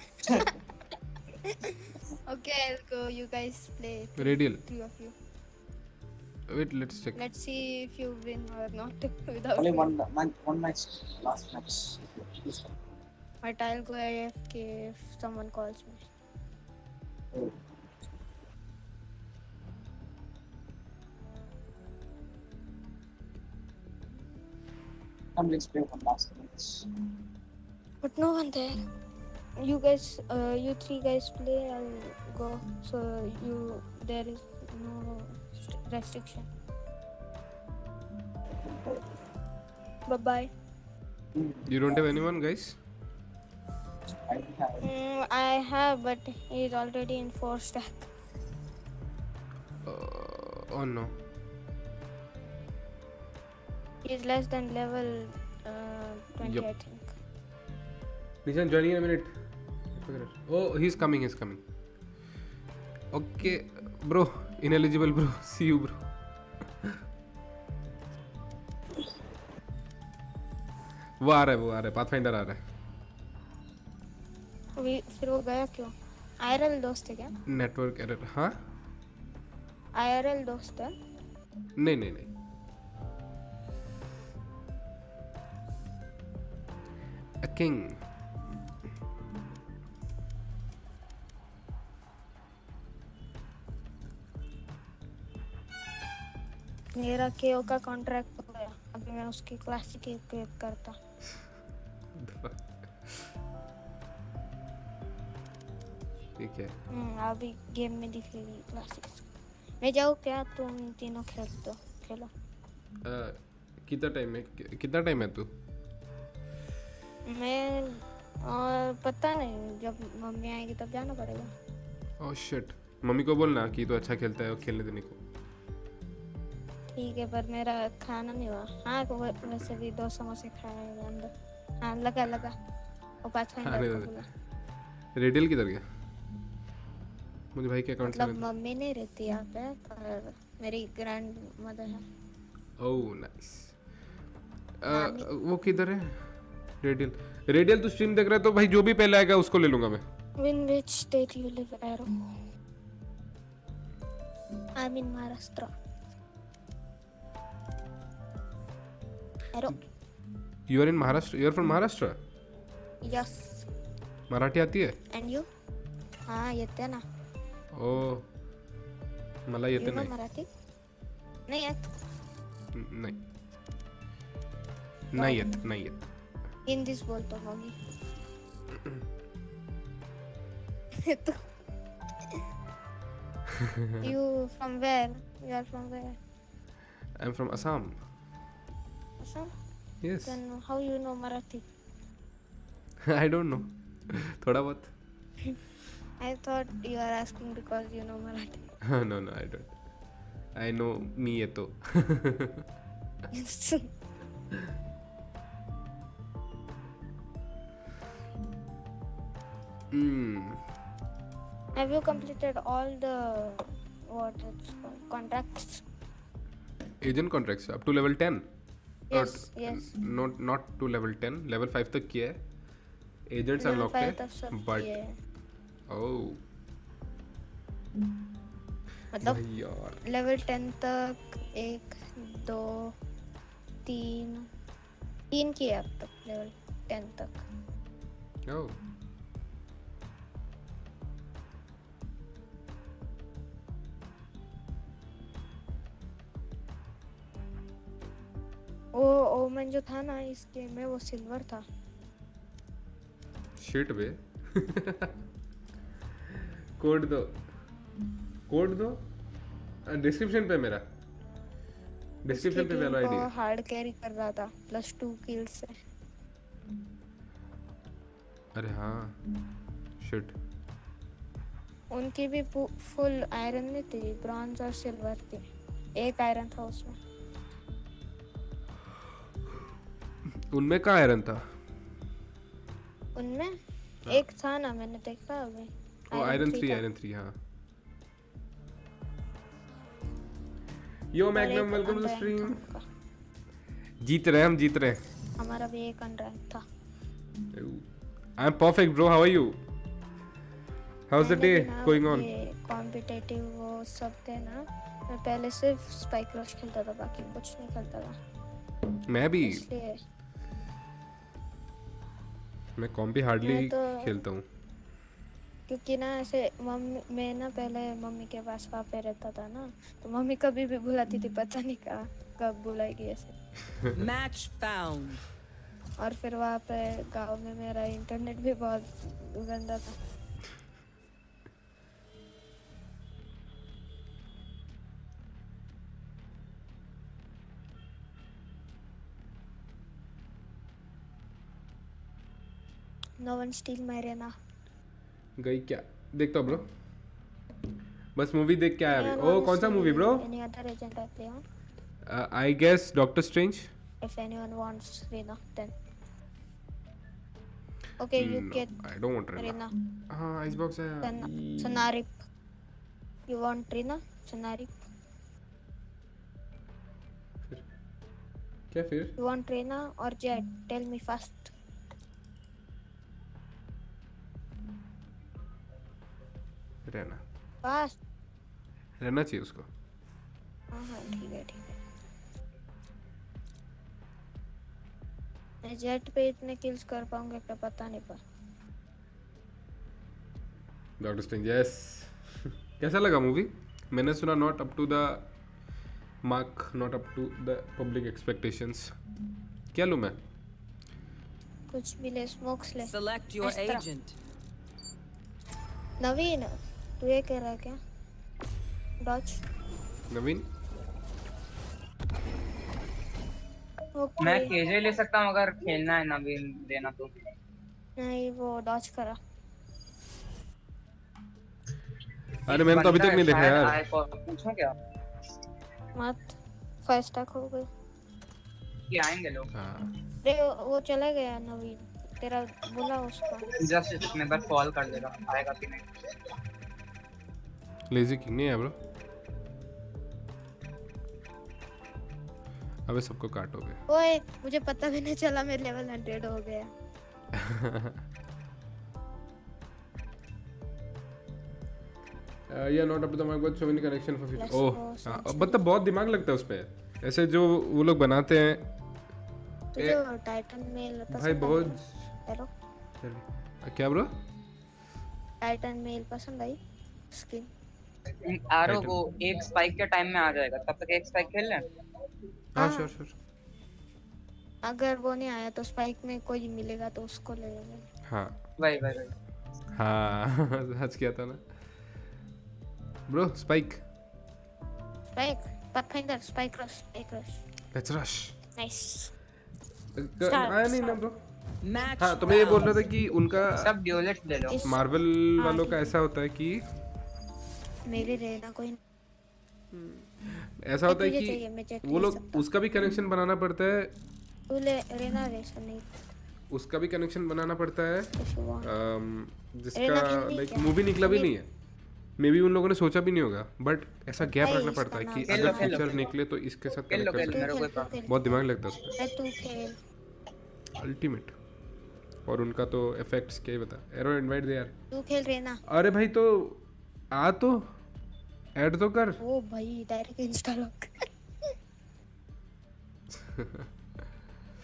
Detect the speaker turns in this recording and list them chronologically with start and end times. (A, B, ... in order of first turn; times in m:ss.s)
0:00.2-0:00.5 A
0:01.4-0:05.1 B
0:04.2-0:04.6 C
0:06.5-0:07.2 C
0:07.2-0:09.9 B
0:09.6-0:12.8 A
0:13.4-0:16.0 B
0:17.3-0:17.8 A
0:25.4-0:26.9 A
0:28.0-0:28.8 B
0:29.6-0:36.5 B
0:38.6-0:39.1 A
0:40.1-0:40.5 B
0:41.4-0:42.0 A
0:41.7-0:42.8 C
0:44.3-0:44.9 A
0:44.8-0:48.1 B
0:49.8-0:51.1 C
0:54.0-0:57.1 B
0:56.4-0:56.7 C
0:58.4-0:59.3 C
1:00.0-1:01.6 C
1:03.1-1:06.0 C
1:11.2-1:12.6 C
1:14.8-1:17.3 B
1:17.5-1:18.6 C
1:19.9-1:20.9 B
1:21.8-1:22.3 C
1:27.4-1:28.0 C
1:37.0-1:41.0 B
1:42.1-1:43.3 C
1:46.4-1:46.7 C
1:46.9-1:49.2 B
1:49.8-1:52.3 B
1:53.0-1:55.5 C
1:57.3-2:01.5 B
2:02.2-2:05.2 C
2:06.9-2:11.3 B
2:11.8-2:12.6 B
2:13.2-2:14.3 B
2:13.6-2:14.2 C
2:15.2-2:15.8 C
2:17.6-2:18.4 C
2:18.1-2:22.0 B
2:22.8-2:23.7 C
2:24.8-2:26.2 C
2:24.9-2:25.3 B
2:26.8-2:30.0 C
2:30.4-2:32.1 B
2:34.8-2:35.7 B
2:39.5-2:39.8 B
2:40.7-2:42.2 C
2:43.0-2:43.7 B
2:44.3-2:45.0 C
2:45.1-2:45.5 B
2:46.3-2:47.0 B
2:47.8-2:48.2 C
2:49.5-2:50.1 C
2:49.8-2:50.5 B
2:51.5-2:51.8 B
2:52.7-2:53.2 C
2:55.1-2:56.0 C
2:55.2-2:55.6 B
2:56.7-2:57.8 B
2:58.8-2:59.0 C
3:01.0-3:01.4 B
3:03.6-3:04.2 C
3:04.0-3:06.2 B
3:07.2-3:08.0 C
3:09.2-3:09.5 B
3:10.0-3:10.4 C
3:10.2-3:11.7 B
3:13.0-3:14.9 C
3:16.2-3:18.7 B
3:18.8-3:19.7 C
3:20.6-3:22.6 C
3:23.3-3:23.9 B
3:29.9-3:30.6 C
3:31.8-3:35.8 B
3:37.0-3:38.5 C
3:39.1-3:39.9 B
3:39.1-3:42.4 C
3:43.3-3:44.9 C
3:43.6-3:45.1 B
3:45.9-3:46.4 C
3:49.2-3:49.4 B
3:49.2-3:50.0 C
3:50.0-3:52.9 B
3:53.9-3:54.5 B
3:55.3-3:57.5 B
3:58.5-3:58.8 C
4:09.0-4:11.6 B
4:13.6-4:15.2 C
4:16.3-4:17.4 C
4:18.5-4:19.0 C
4:19.9-4:20.8 C
4:22.2-4:23.3 C
4:22.3-4:25.8 B
4:28.6-4:29.2 C
4:30.0-4:30.4 C
4:31.9-4:35.4 B
4:36.0-4:37.0 B
4:40.5-4:41.5 C
4:43.2-4:43.5 B
4:44.1-4:46.8 B
4:46.1-4:47.4 C
4:51.1-4:52.7 C
4:51.3-4:52.8 B
4:54.0-4:55.0 C
4:55.4-4:56.6 B
4:57.5-4:57.9 C
4:58.4-4:59.6 C
5:01.1-5:02.3 C
5:01.2-5:08.2 B
5:09.1-5:09.6 C
5:09.4-5:10.0 B
5:12.8-5:14.4 C
5:13.4-5:14.2 B
5:15.7-5:23.4 B
5:24.0-5:25.2 D
5:26.0-5:30.0 B
5:43.2-5:44.4 B
5:45.4-5:46.7 C
5:48.2-5:50.2 C
5:48.9-5:51.4 B
5:52.1-5:53.7 C
5:54.0-5:55.7 B
5:58.0-5:58.7 B
5:58.2-5:59.6 C
5:59.4-5:59.7 B
6:00.1-6:01.8 C
6:01.0-6:02.2 B
6:03.3-6:04.9 B
6:08.7-6:09.2 C
6:09.2-6:11.5 B
6:16.9-6:17.2 C
6:17.6-6:18.0 B
6:19.0-6:19.7 C
6:20.7-6:21.7 B
6:25.6-6:28.2 B
6:31.0-6:32.2 C
6:32.8-6:35.3 C
6:36.2-6:38.9 C
6:39.7-6:40.2 C
6:41.7-6:43.8 B
6:42.9-6:44.2 D
6:46.0-6:47.8 B
6:49.0-6:49.4 B
6:50.1-6:50.5 C
6:54.0-6:54.5 B
6:54.2-6:57.1 E
6:58.0-6:59.2 B
7:02.5-7:03.8 C
7:02.5-7:04.8 E
7:06.0-7:07.7 B
7:08.9-7:09.5 E
7:09.6-7:10.0 C
7:10.2-7:13.6 B
7:13.6-7:15.8 E
7:17.9-7:18.8 C
7:22.9-7:23.8 C
7:23.9-7:26.7 B
7:27.3-7:28.0 C
7:32.5-7:38.7 C
7:34.4-7:35.6 B
7:39.8-7:42.5 B
7:41.1-7:42.1 C
7:43.0-7:44.1 C
7:45.4-7:46.6 B
7:47.1-7:47.5 B
7:48.2-7:51.6 E
7:48.7-7:49.0 C
7:52.6-7:53.2 C
7:52.6-7:52.9 B
7:54.6-7:57.8 B
7:58.1-7:58.4 C
7:58.6-7:59.1 E
7:59.7-8:01.4 C
8:03.1-8:03.8 C
8:05.2-8:07.4 B
8:07.7-8:08.4 C
8:08.6-8:09.1 B
8:10.0-8:11.2 C
8:10.2-8:11.0 B
8:11.6-8:12.8 D
8:12.0-8:13.7 C
8:13.5-8:14.6 E
8:14.5-8:14.8 B
8:14.6-8:16.6 C
8:15.4-8:15.9 B
8:17.9-8:18.8 B
8:19.7-8:23.9 C
8:20.9-8:22.5 B
8:24.5-8:26.0 B
8:26.5-8:31.5 C
8:28.2-8:28.7 B
8:29.8-8:31.3 B
8:32.2-8:39.0 C
8:34.4-8:35.8 B
8:35.3-8:36.0 E
8:36.9-8:37.9 E
8:37.2-8:38.1 B
8:39.0-8:39.8 B
8:40.8-8:41.3 C
8:42.3-8:44.7 C
8:44.9-8:45.6 B
8:45.7-8:46.6 C
8:47.1-8:47.7 C
8:48.6-8:49.2 C
8:49.2-8:51.5 B
8:53.1-8:53.7 C